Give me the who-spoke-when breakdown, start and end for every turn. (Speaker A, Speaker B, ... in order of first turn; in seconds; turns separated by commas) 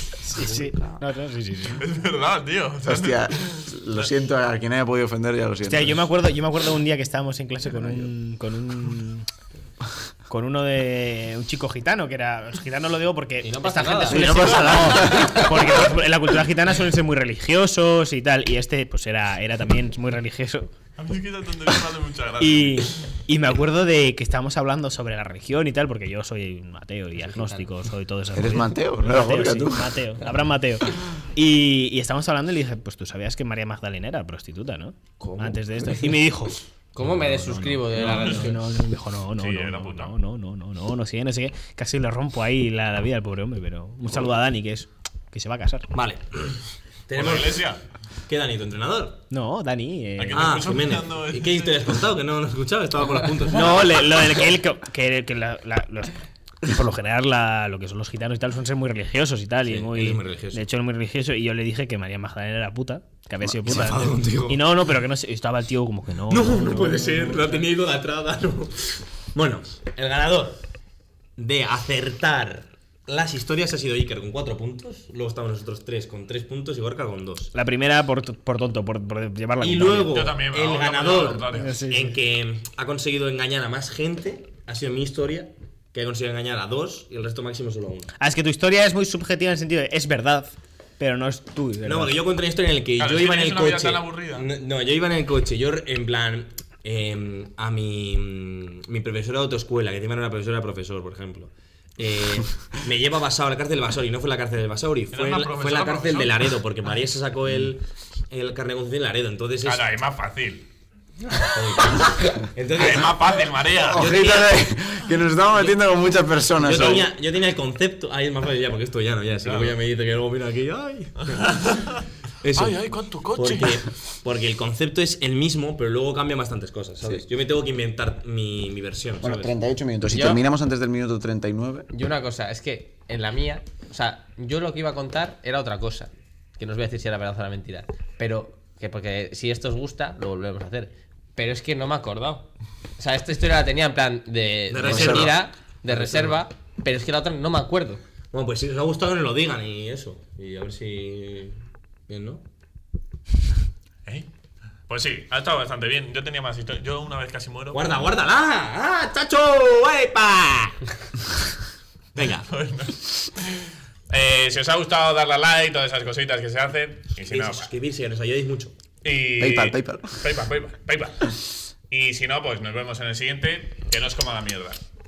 Speaker A: 0.2-1.8, Speaker B: 0.4-0.9, Speaker C: 1.8-3.8, Speaker D: 2.9-6.0, Speaker A: 5.7-9.3, Speaker D: 7.7-8.1, Speaker A: 10.3-20.8, Speaker E: 13.4-15.5, Speaker D: 14.1-15.7, Speaker C: 14.2-15.2, Speaker C: 21.0-23.1, Speaker A: 22.4-45.9, Speaker E: 27.2-27.7, Speaker D: 28.3-30.0, Speaker E: 36.9-38.6, Speaker C: 38.0-38.4, Speaker C: 39.4-40.1, Speaker B: 45.9-47.7, Speaker C: 47.1-47.8, Speaker B: 48.3-49.2, Speaker A: 49.3-50.6, Speaker C: 50.2-52.0, Speaker B: 50.3-54.3, Speaker A: 53.5-67.7, Speaker B: 59.6-60.6, Speaker B: 63.6-64.8, Speaker B: 66.3-70.6, Speaker B: 71.4-77.5, Speaker A: 77.5-80.3, Speaker B: 79.6-88.1, Speaker C: 80.1-81.8, Speaker A: 81.6-82.2, Speaker A: 88.2-92.2, Speaker B: 91.8-109.8, Speaker C: 93.0-94.5, Speaker C: 105.1-106.5, Speaker C: 109.6-110.7, Speaker B: 111.4-114.6, Speaker C: 112.7-114.1, Speaker D: 113.9-117.1, Speaker B: 116.6-121.6, Speaker C: 119.5-119.8, Speaker C: 121.3-123.8, Speaker B: 122.4-129.5, Speaker D: 129.2-131.9, Speaker E: 130.1-130.4, Speaker E: 131.9-148.0, Speaker B: 144.7-146.4, Speaker D: 144.8-145.3, Speaker B: 148.3-152.4, Speaker C: 154.9-158.0, Speaker B: 157.7-160.8, Speaker B: 162.2-162.5, Speaker C: 162.4-167.7, Speaker B: 167.3-168.8, Speaker C: 169.0-171.3, Speaker D: 169.4-170.2, Speaker C: 171.9-174.8